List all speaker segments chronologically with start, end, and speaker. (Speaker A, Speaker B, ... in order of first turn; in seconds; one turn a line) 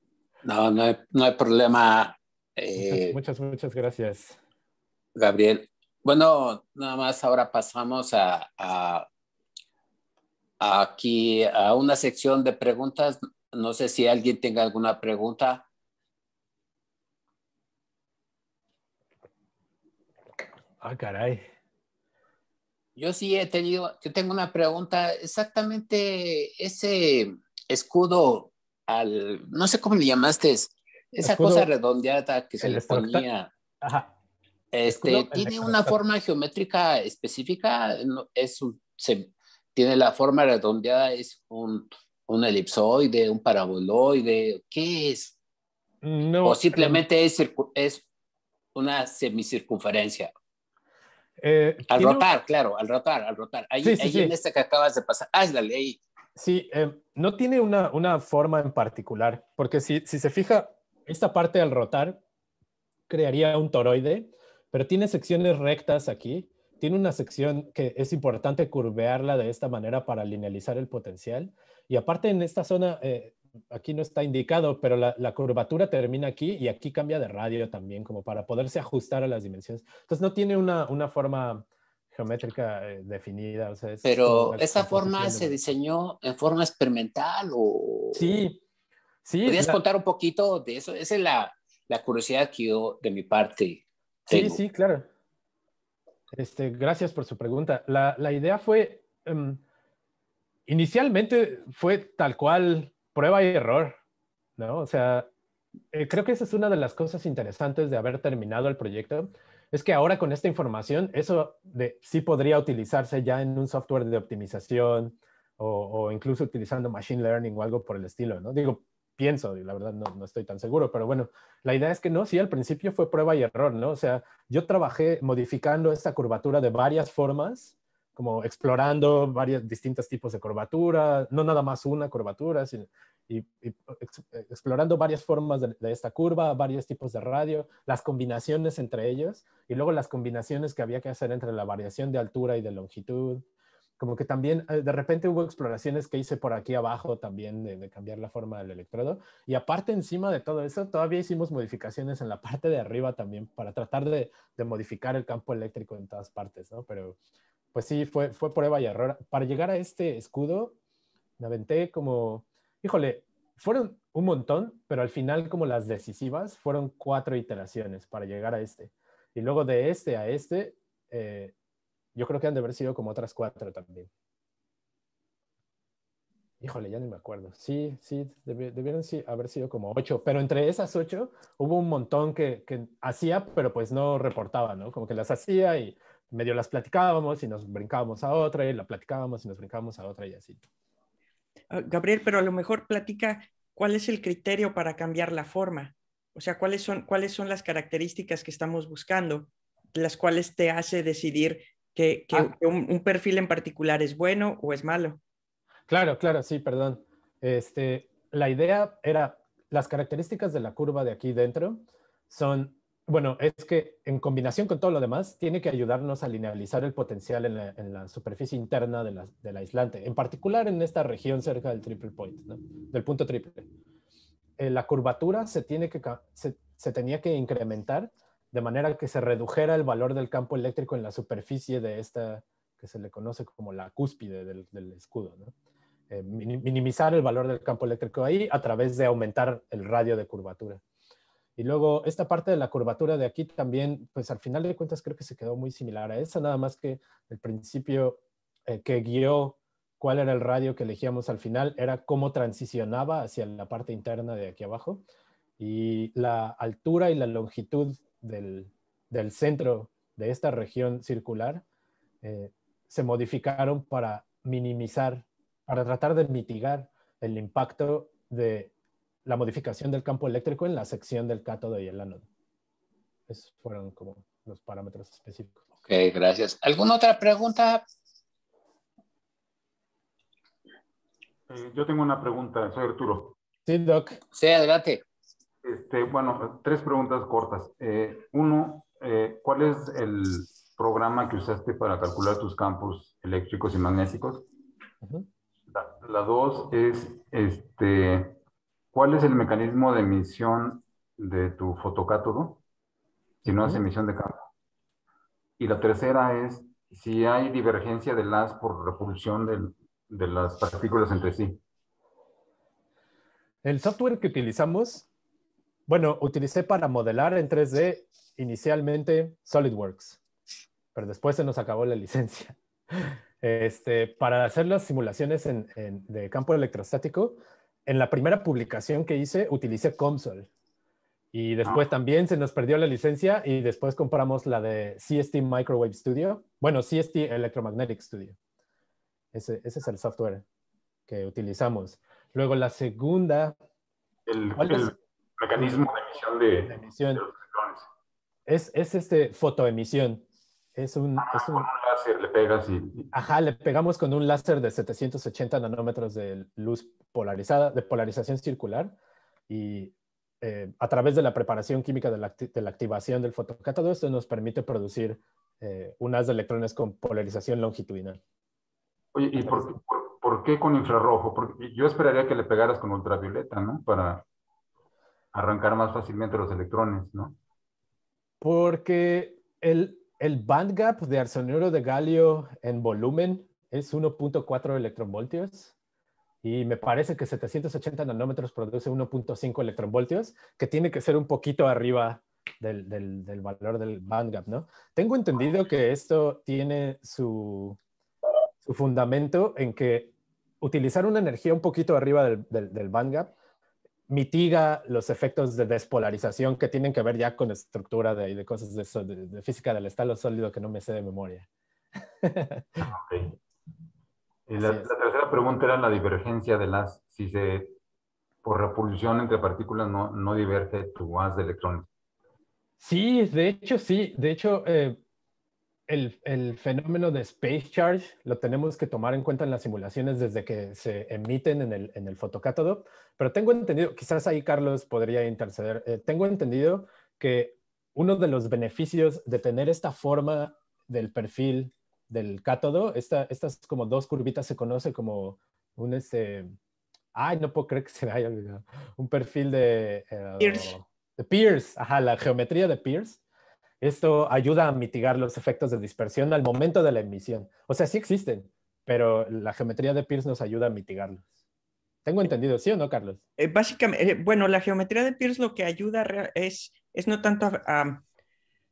Speaker A: 0.4-3.2
Speaker B: 2.8-4.4
Speaker A: 5.2-9.1
Speaker A: 10.6-15.7
Speaker B: 20.8-21.5
Speaker A: 23.0-33.5
Speaker B: 31.2-31.7
Speaker B: 32.6-33.2
Speaker B: 33.8-34.1
Speaker A: 34.7-45.4
Speaker B: 34.9-36.0
Speaker B: 46.0-47.0
Speaker A: 46.4-48.0
Speaker A: 48.8-50.3
Speaker B: 51.4-52.3
Speaker A: 51.9-56.0
Speaker B: 53.8-54.3
Speaker B: 56.4-62.2
Speaker B: 63.1-85.6
Speaker A: 84.0-88.3
Speaker B: 88.1-88.6
Speaker B: 89.2-89.8
Speaker A: 89.5-94.6
Speaker B: 94.3-95.1
Speaker B: 96.3-99.6
Speaker B: 100.7-104.0
Speaker B: 104.6-105.3
Speaker B: 105.9-143.4
Speaker B: 144.0-157.2
Speaker B: 157.7-160.8
Speaker B: 161.4-171.5
Speaker B: 172.2-174.1
Speaker B: 176.6-190.6
Speaker C: 191.7-205.2
Speaker B: 205.9-223.7
Speaker B: 224.6-235.5
Speaker B: 236.1-240.8
Speaker B: 241.6-255.0
Speaker B: 255.6-261.6
Speaker B: 262.2-268.7
Speaker B: 269.3-272.3
Speaker B: 273.3-275.6
Speaker A: 275.8-277.9
Speaker D: 281.5-283.4
Speaker B: 283.7-284.2
Speaker A: 284.3-285.0
Speaker D: 285.6-294.5
Speaker D: 295.7-298.4
Speaker D: 298.9-302.6
Speaker D: 303.4-304.5
Speaker B: 303.5-303.8
Speaker D: 305.6-311.6
Speaker B: 313.6-315.1
Speaker B: 315.9-320.2
Speaker B: 320.9-330.5
Speaker B: 331.3-338.4
Speaker B: 339.3-340.4
Speaker B: 341.1-343.6
Speaker D: 344.3-347.9
Speaker B: 344.6-344.9
Speaker B: 345.6-345.9
Speaker B: 346.7-347.2
Speaker B: 348.5-350.2
Speaker B: 350.8-351.7
Speaker D: 351.2-353.1
Speaker B: 353.1-358.9
Speaker B: 359.5-368.2
Speaker D: 369.1-374.2
Speaker B: 369.4-369.7
Speaker D: 375.3-377.4
Speaker B: 378.4-385.7
Speaker B: 386.4-397.8
Speaker B: 398.6-403.3
Speaker B: 404.1-411.5
Speaker B: 412.2-412.8
Speaker D: 412.9-413.4
Speaker D: 414.5-417.8
Speaker B: 414.6-414.9
Speaker D: 418.4-421.9
Speaker B: 422.8-425.0
Speaker B: 425.9-446.5
Speaker B: 447.1-453.2
Speaker C: 450.4-450.7
Speaker B: 453.8-461.3
Speaker B: 462.1-463.2
Speaker C: 463.4-468.0